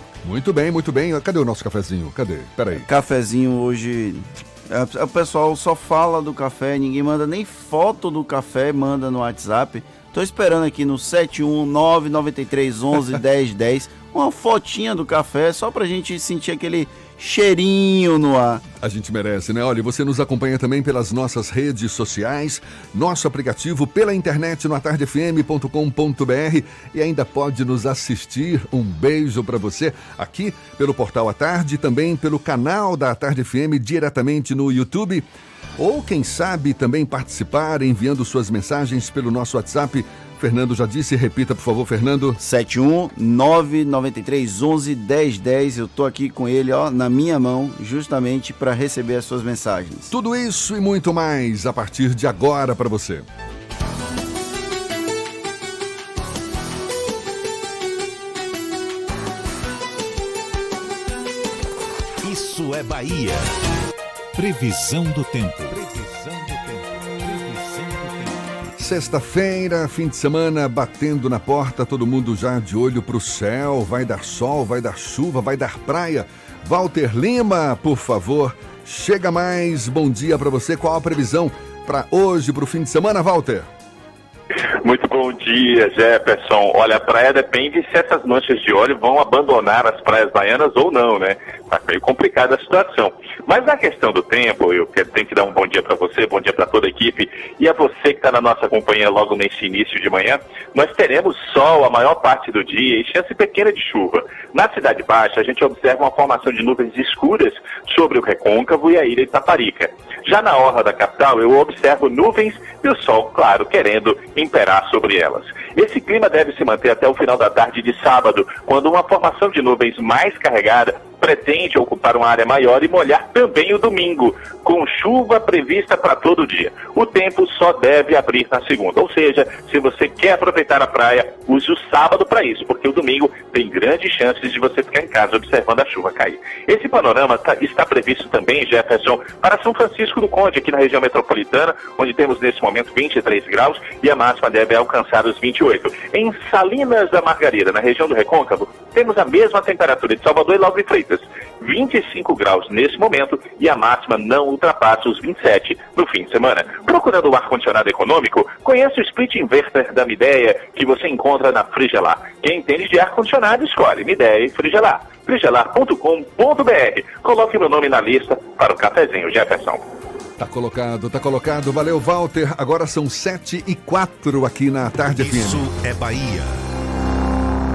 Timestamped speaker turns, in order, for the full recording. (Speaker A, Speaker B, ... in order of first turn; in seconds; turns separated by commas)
Speaker A: 0.2-2.9, Speaker B: 2.8-18.6, Speaker A: 18.8-35.2, Speaker A: 35.8-42.4, Speaker B: 42.4-50.1, Speaker A: 50.1-53.2, Speaker C: 62.2-63.5, Speaker C: 64.3-68.7, Speaker A: 68.8-83.7, Speaker D: 84.6-169.8, Speaker A: 170.4-175.7, Speaker C: 175.0-176.7